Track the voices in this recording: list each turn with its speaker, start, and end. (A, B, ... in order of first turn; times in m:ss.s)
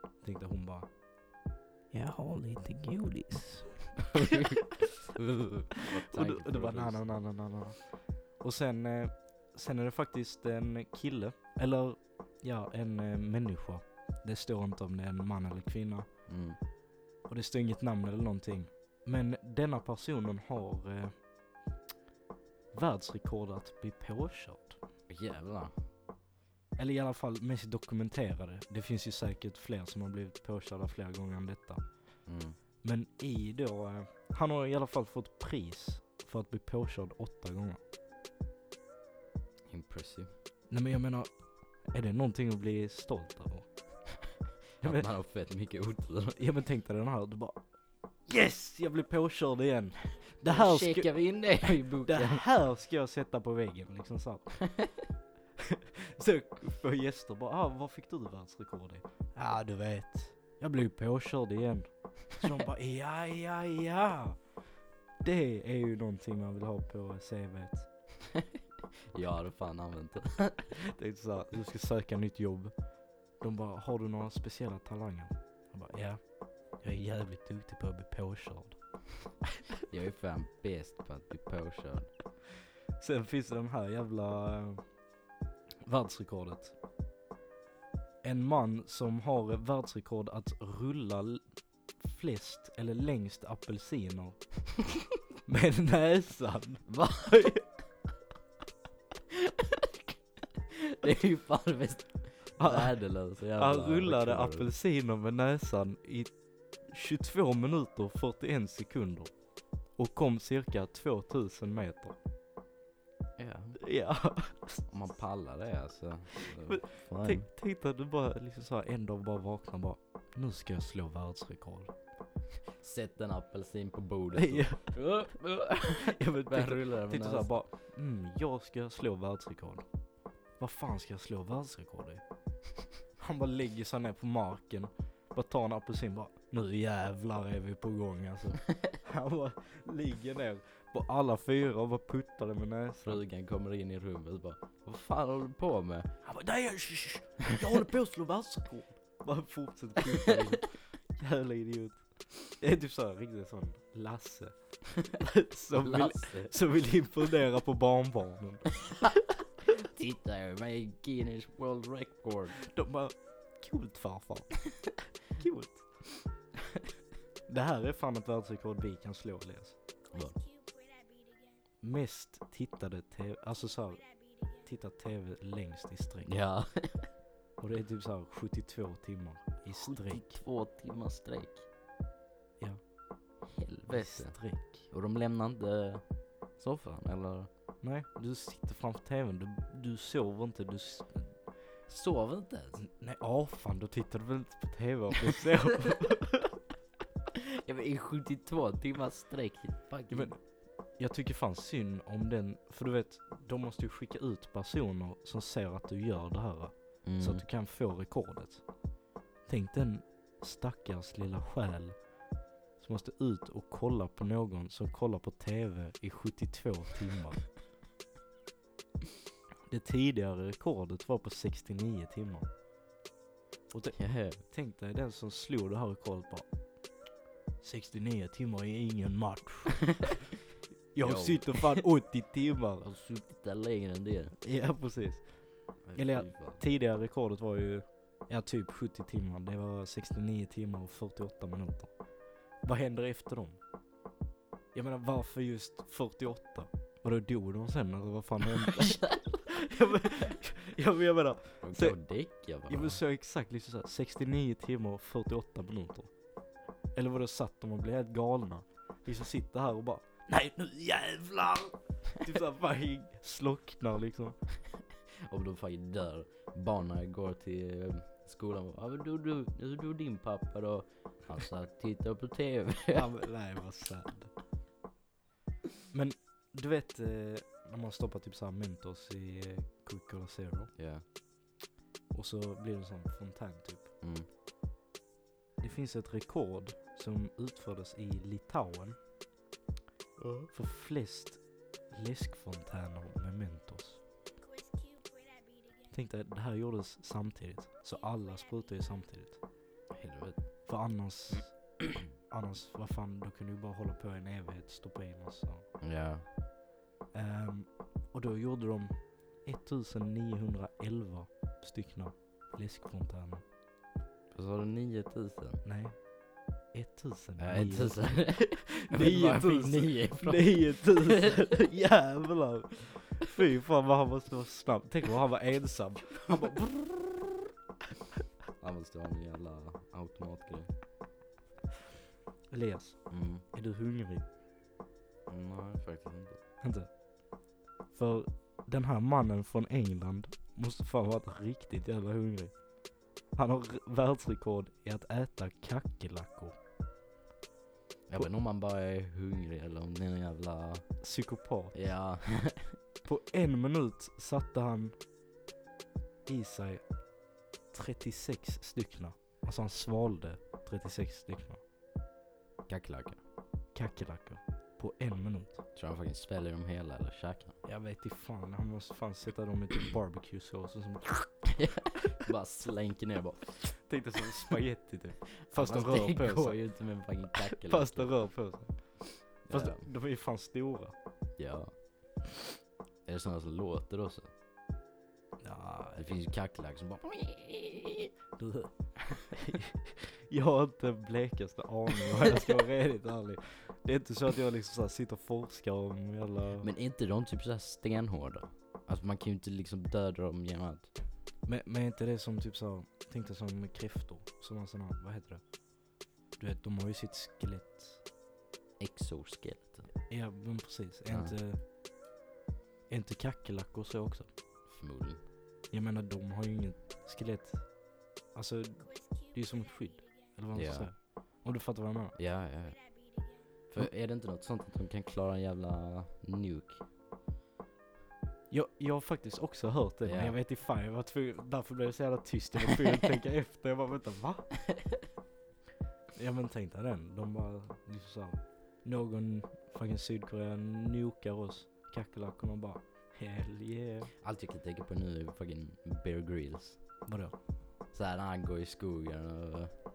0:00.2-0:00.9 A
0:01.9-0:04.1 A
0:04.1-0:07.0 B
0:05.8-0:16.1 A
0:16.3-0:16.6 B
0:17.3-0:21.1 A
0:22.7-0:24.8 A
0:25.1-0:25.7 B
0:26.8-0:31.8 A
0:32.2-0:32.6 B
0:32.8-0:37.8 A
0:39.7-0:40.3 B
0:40.7-0:41.3 A
0:41.9-0:43.7 A
0:44.8-0:46.4 B
0:46.4-0:47.6 A
0:48.3-0:54.6 A
0:50.4-0:52.4 B
0:55.6-1:04.4 A
1:05.2-1:07.9 A
1:08.3-1:08.6 B
1:09.1-1:10.7 B
1:11.0-1:12.8 A
1:13.4-1:18.8 A
1:19.9-1:22.1 B
1:23.0-1:24.8 A
1:25.8-1:26.7 A
1:28.2-1:31.4 A
1:32.0-1:34.7 A
1:35.4-1:37.0 A
1:36.9-1:37.6 B
1:39.5-1:39.9 B
1:40.7-1:44.7 B
1:42.6-1:46.3 A
1:46.9-1:49.3 A
1:50.0-1:52.2 A
1:53.4-1:53.8 B
1:53.8-1:54.8 A
1:54.9-1:57.4 B
1:56.4-2:01.9 A
2:02.8-2:07.6 B
2:04.3-2:05.0 A
2:05.9-2:09.8 A
2:10.6-2:12.2 A
2:13.2-2:23.2 A
2:23.0-2:26.1 B
2:26.2-2:38.9 A
2:35.7-2:36.5 B
2:39.7-2:42.6 B
2:42.6-2:46.0 A
2:47.5-2:49.8 A
2:50.1-2:50.4 B
2:51.8-2:56.4 A
2:56.2-2:57.1 B
2:57.6-3:00.3 A
2:59.7-3:01.6 B
3:03.5-3:07.5 B
3:03.9-3:04.9 A
3:07.8-3:11.4 A
3:11.9-3:12.8 B
3:12.8-3:16.5 A
3:17.6-3:20.3 B
3:20.1-3:20.4 A
3:21.0-3:28.6 A
3:27.0-3:27.4 B
3:29.4-3:32.0 A
3:32.8-3:37.5 A
3:39.7-3:42.5 A
3:43.7-3:46.5 A
3:44.0-3:44.4 B
3:47.6-3:50.1 A
3:50.9-3:52.8 A
3:51.0-3:51.8 B
3:52.8-3:54.4 B
3:54.4-4:01.9 A
3:55.8-3:56.6 B
4:02.6-4:03.6 A
4:04.7-4:12.0 A
4:11.6-4:13.0 B
4:12.6-4:16.1 A
4:16.9-4:24.4 A
4:25.3-4:33.1 B
4:32.9-4:34.3 A
4:35.9-4:40.7 A
4:40.8-4:41.0 B
4:42.1-4:43.9 A
4:44.0-4:44.3 B
4:45.6-4:49.0 A
4:50.2-4:50.5 B
4:50.5-4:54.0 A
4:55.9-4:59.4 A
4:59.9-5:00.5 B
5:00.6-5:05.7 A
5:05.8-5:06.2 B
5:07.1-5:13.4 A
5:14.3-5:15.6 B
5:15.6-5:16.1 A
5:16.7-5:27.2 A
5:17.4-5:21.4 B
5:28.6-5:30.7 B
5:32.5-5:34.2 A
5:33.1-5:33.4 B
5:35.3-5:36.4 B
5:36.6-5:36.9 A
5:37.9-5:42.6 A
5:43.3-5:46.5 A
5:48.1-5:51.0 B
5:51.0-5:51.9 A
5:51.7-5:52.8 B
5:53.0-5:55.0 A
5:56.2-5:56.9 A
5:57.7-6:01.6 A
6:02.7-6:03.2 B
6:03.7-6:05.6 A
6:05.7-6:07.6 B
6:07.6-6:11.6 A
6:11.5-6:13.7 B
6:13.8-6:16.6 A
6:15.4-6:18.3 B
6:17.5-6:20.9 A
6:19.4-6:19.8 B
6:21.4-6:21.7 B
6:23.0-6:24.3 B
6:25.4-6:26.1 A
6:26.0-6:28.1 B
6:28.4-6:36.7 A
6:36.6-6:40.9 B
6:41.4-6:45.4 A
6:46.4-6:48.0 A
6:48.8-6:49.9 B
6:50.0-6:51.6 A
6:51.1-6:51.3 B
6:52.9-6:54.3 A
6:54.7-6:55.2 B
6:55.7-7:02.1 A
7:00.5-7:00.9 B
7:02.1-7:03.0 B
7:03.7-7:06.8 B
7:08.5-7:14.6 A
7:10.0-7:10.4 B
7:16.1-7:24.1 A
7:24.2-7:26.8 B
7:27.0-7:27.3 A
7:27.9-7:29.7 B